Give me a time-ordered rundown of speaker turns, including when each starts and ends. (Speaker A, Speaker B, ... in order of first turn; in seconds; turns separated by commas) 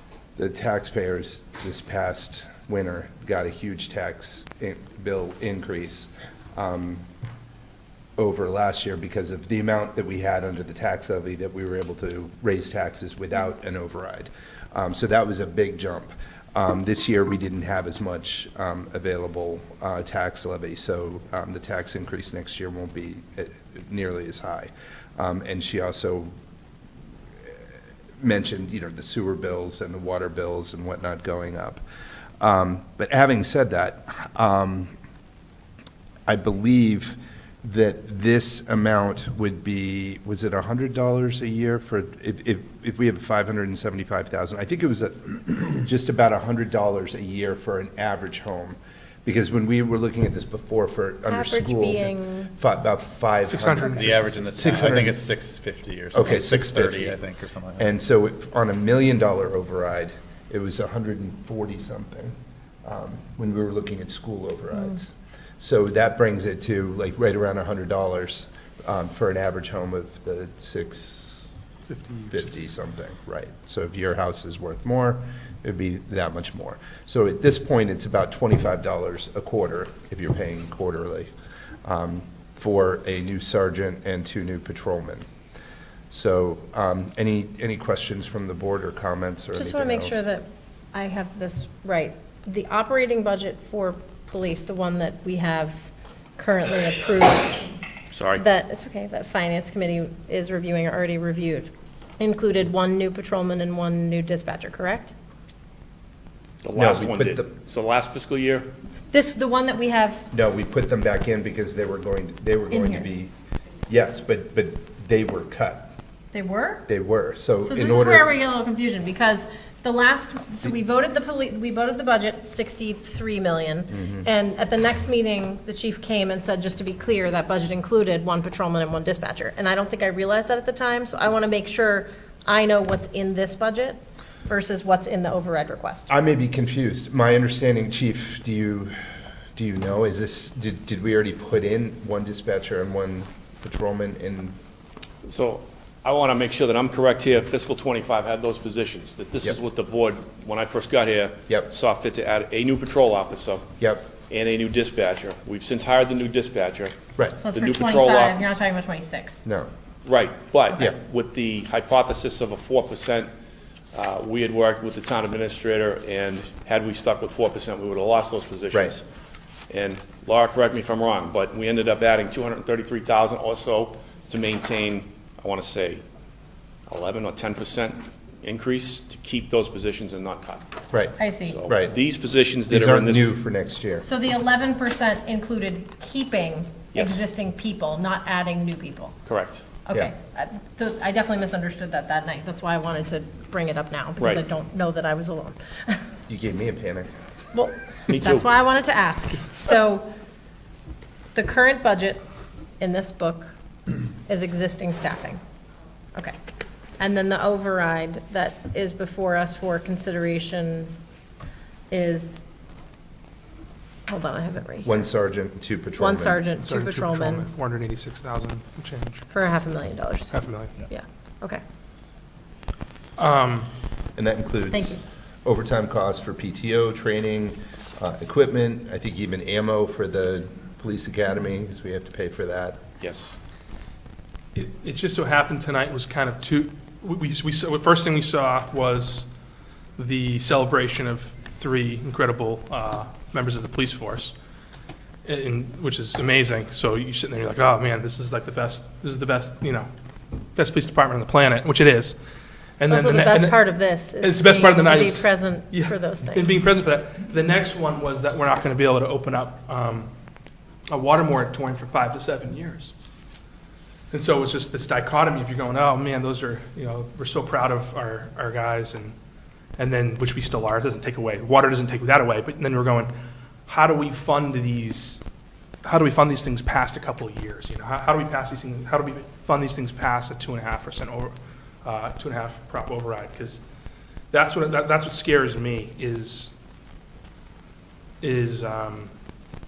Speaker A: 0.4-7.1, Speaker A: 8.2-26.3, Speaker A: 28.2-31.8, Speaker A: 32.4-34.9, Speaker A: 36.3-55.2, Speaker B: 51.3-52.5, Speaker C: 53.4-54.9, Speaker D: 54.0-58.0, Speaker A: 56.1-57.2, Speaker A: 57.8-71.5, Speaker C: 71.9-72.6, Speaker A: 72.3-81.3, Speaker A: 81.8-85.3, Speaker A: 86.1-90.2, Speaker B: 89.5-97.7, Speaker E: 98.1-98.4, Speaker B: 98.3-105.1, Speaker E: 106.6-108.7, Speaker A: 106.8-107.5, Speaker B: 109.1-110.3, Speaker A: 110.3-113.3, Speaker B: 112.7-113.1, Speaker A: 113.9-115.9, Speaker B: 116.3-116.9, Speaker A: 116.9-118.3, Speaker B: 117.6-136.1, Speaker A: 123.9-124.2, Speaker A: 136.1-139.0, Speaker A: 139.6-144.6, Speaker E: 145.2-153.7, Speaker A: 153.8-154.1, Speaker E: 154.3-156.9, Speaker B: 157.4-159.4, Speaker E: 157.5-158.4, Speaker A: 159.4-159.7, Speaker E: 160.0-163.3, Speaker E: 163.9-169.0, Speaker E: 169.7-176.0, Speaker E: 176.9-180.7, Speaker A: 180.9-181.9, Speaker B: 181.2-181.6, Speaker E: 181.4-183.3, Speaker A: 182.7-184.0, Speaker B: 184.0-189.2, Speaker E: 186.9-187.3, Speaker E: 189.2-189.6, Speaker B: 189.8-196.0, Speaker A: 196.3-197.1, Speaker B: 197.5-200.1, Speaker E: 198.1-198.5, Speaker B: 201.3-202.2, Speaker B: 202.8-203.5, Speaker B: 204.3-205.4, Speaker B: 207.0-210.9, Speaker B: 211.9-212.4, Speaker B: 214.1-214.9, Speaker A: 214.8-216.4, Speaker B: 216.0-217.5, Speaker C: 216.6-219.2, Speaker B: 219.3-221.6, Speaker C: 220.3-220.8, Speaker C: 223.2-223.7, Speaker A: 224.2-232.8, Speaker B: 224.7-225.0, Speaker E: 233.0-233.3, Speaker C: 234.5-239.3, Speaker C: 240.0-244.3, Speaker C: 245.2-249.9, Speaker C: 250.6-252.2, Speaker C: 252.8-260.1, Speaker B: 252.9-256.6, Speaker C: 260.9-262.9, Speaker C: 264.1-269.1, Speaker C: 269.8-273.1, Speaker C: 273.7-275.2, Speaker C: 275.8-283.6, Speaker C: 284.3-286.5, Speaker C: 288.2-289.1